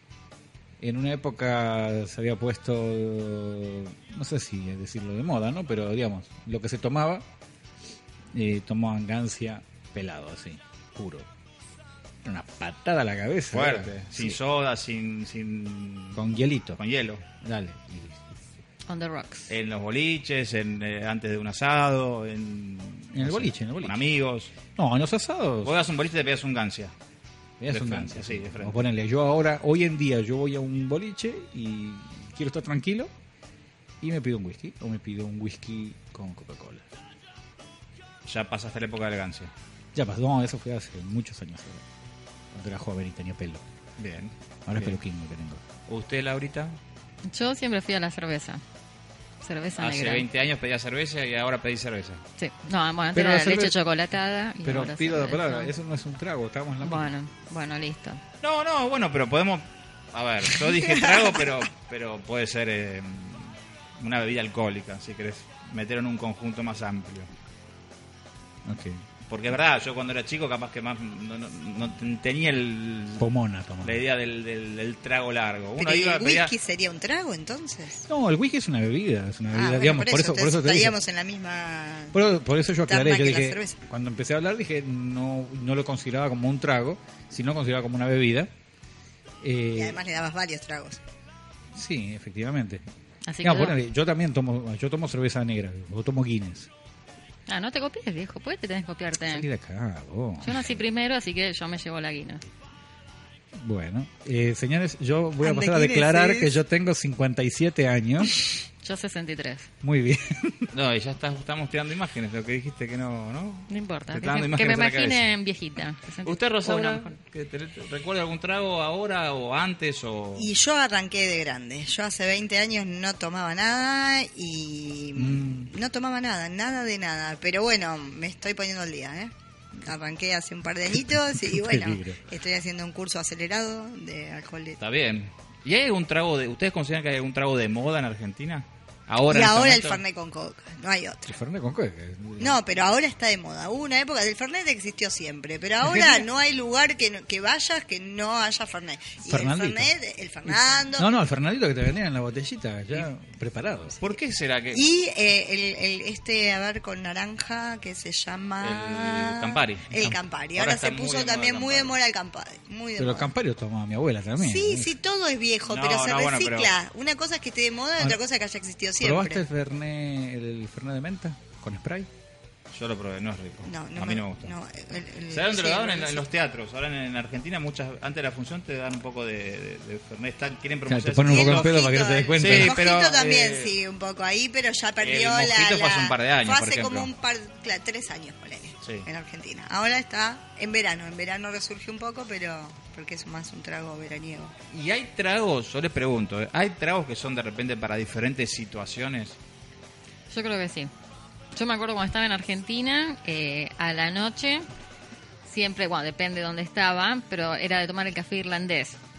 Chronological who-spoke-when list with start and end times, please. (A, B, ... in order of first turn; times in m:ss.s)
0:00.8-0:07.2 A
0:08.3-0:11.3 A
0:12.2-0:14.4 A
0:13.5-0:16.2 B
0:16.1-0:16.8 A
0:16.8-0:17.2 B
0:17.4-0:18.2 A
0:18.9-0:19.5 C
0:19.5-0:24.5 B
0:23.1-0:24.0 A
0:24.7-0:25.7 A
0:25.6-0:26.9 B
0:27.6-0:33.1 A
0:27.7-0:28.8 B
0:34.0-0:36.9 A
0:38.2-0:39.5 B
0:39.9-0:41.8 A
0:42.5-0:43.6 A
0:44.0-0:45.0 B
0:44.6-0:45.6 A
0:45.9-0:46.8 B
0:47.2-0:48.6 C
0:49.4-0:50.2 C
0:49.8-0:52.2 B
0:52.4-0:55.7 C
0:53.1-0:53.8 A
0:54.6-0:57.1 A
0:56.8-0:58.2 C
0:58.4-1:07.3 B
1:08.6-1:09.0 A
1:09.3-1:13.3 B
1:13.2-1:14.0 A
1:13.8-1:16.5 B
1:15.8-1:18.0 D
1:18.1-1:21.0 A
1:19.5-1:22.2 D
1:22.1-1:28.5 A
1:22.9-1:23.8 D
1:29.4-1:30.0 A
1:29.7-1:31.0 D
1:31.7-1:32.8 A
1:33.2-1:33.8 C
1:33.4-1:36.7 A
1:37.5-1:39.4 C
1:39.2-1:40.8 A
1:40.4-1:42.4 C
1:43.5-1:48.4 A
1:45.4-1:46.6 D
1:48.8-1:49.7 C
1:49.8-1:50.7 A
1:50.7-1:55.3 B
1:53.7-1:57.2 C
1:56.2-2:00.5 B
2:00.4-2:14.8 D
2:05.1-2:05.7 A
2:11.1-2:12.2 A
2:14.8-2:20.0 B
2:19.3-2:21.3 D
2:21.3-2:22.6 A
2:22.4-2:31.1 D
2:25.8-2:26.2 A
2:29.2-2:29.9 A
2:30.4-2:34.0 A
2:34.0-2:34.8 B
2:34.7-2:43.3 D
2:38.6-2:40.0 B
2:40.5-2:42.0 B
2:43.0-2:44.9 A
2:44.4-2:49.4 D
2:45.7-2:46.7 B
2:49.0-2:52.1 A
2:52.7-2:54.5 B
2:53.6-2:56.2 D
2:55.3-3:01.8 B
3:00.8-3:02.8 A
3:01.3-3:14.5 D
3:02.4-3:03.7 B
3:05.0-3:07.1 B
3:14.7-3:19.4 B
3:20.3-3:20.9 C
3:21.5-3:24.6 C
3:25.4-3:29.0 C